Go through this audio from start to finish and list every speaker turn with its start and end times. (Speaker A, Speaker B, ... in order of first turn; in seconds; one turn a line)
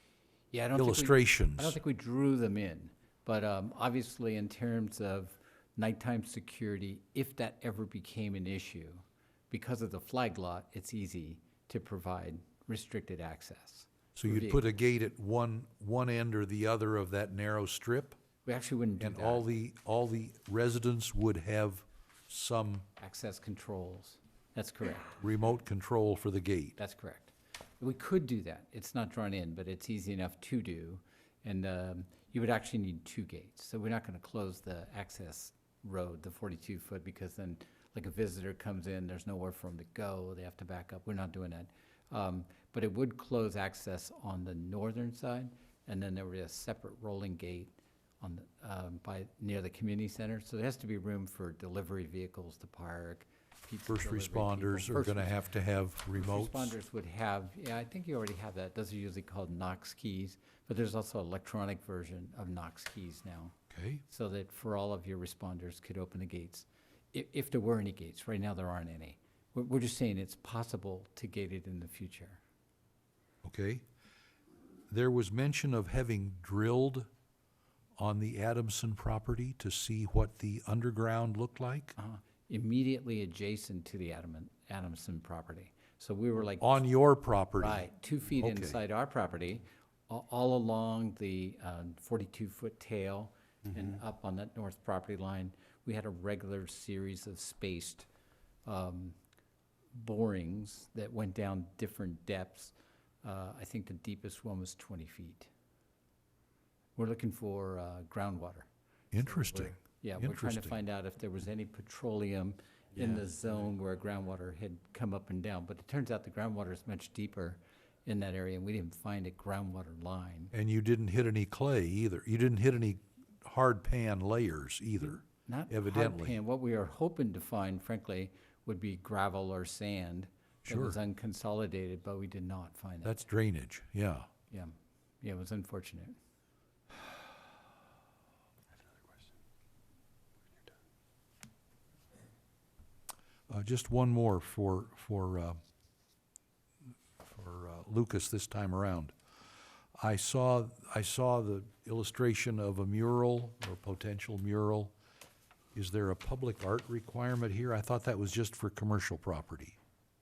Speaker A: 0.5-14.6
Speaker B: 0.8-1.8
Speaker B: 14.2-18.2
Speaker A: 18.4-19.4
Speaker B: 19.0-22.9
Speaker A: 23.0-25.2
Speaker B: 25.2-26.8
Speaker A: 26.8-55.4
Speaker B: 53.9-56.8
Speaker A: 56.1-63.5
Speaker B: 63.7-64.0
Speaker A: 64.1-72.4
Speaker B: 73.4-73.8
Speaker B: 74.9-77.1
Speaker B: 78.0-82.0
Speaker A: 82.0-86.8
Speaker B: 86.6-87.9
Speaker A: 87.6-98.1
Speaker B: 88.4-88.8
Speaker A: 98.7-99.2
Speaker A: 99.9-105.5
Speaker A: 107.0-108.7
Speaker B: 109.1-110.8
Speaker A: 109.2-120.5
Speaker B: 120.5-126.4
Speaker A: 125.5-133.2
Speaker B: 130.7-131.0
Speaker B: 133.1-134.3
Speaker A: 134.5-136.2
Speaker B: 143.5-145.6
Speaker B: 147.2-149.1
Speaker B: 150.0-154.9
Speaker B: 155.7-159.8